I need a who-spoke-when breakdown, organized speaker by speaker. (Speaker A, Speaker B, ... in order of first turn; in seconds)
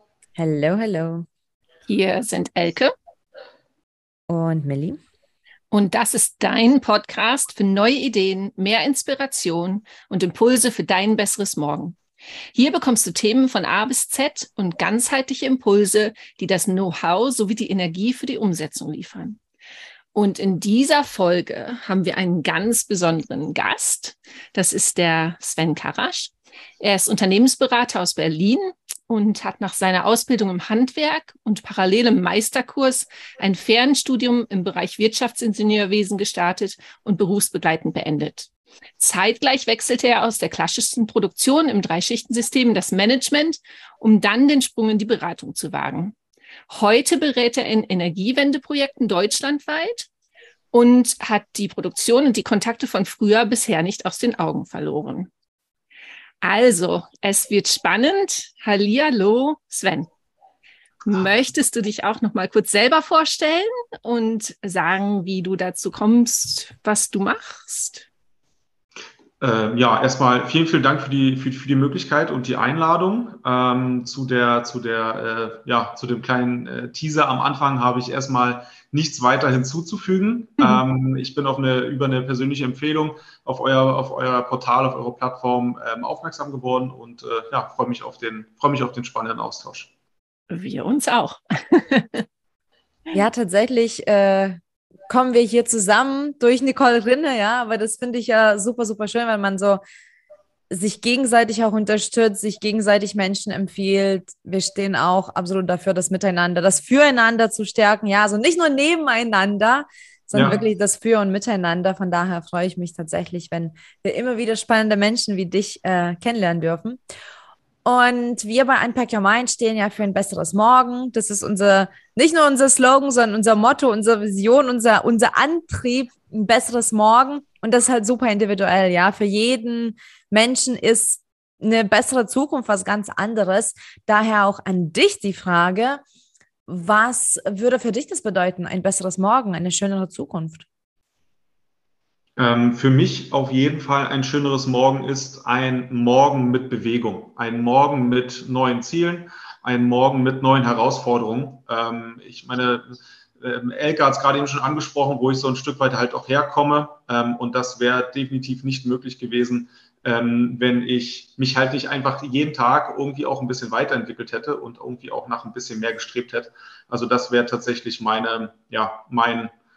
Speaker A: 0.4-1.2, 4.3-5.0, 93.1-94.6, 95.1-99.8, 100.7-117.0, 117.8-136.0, 136.7-140.7
Speaker B: 1.9-2.9, 5.7-12.0, 12.5-19.4, 20.1-38.5, 39.0-46.1, 46.7-50.1, 50.7-55.3, 56.4-60.1, 61.0-68.1, 90.5-92.2
Speaker C: 69.4-89.9, 110.3-110.6, 142.4-169.5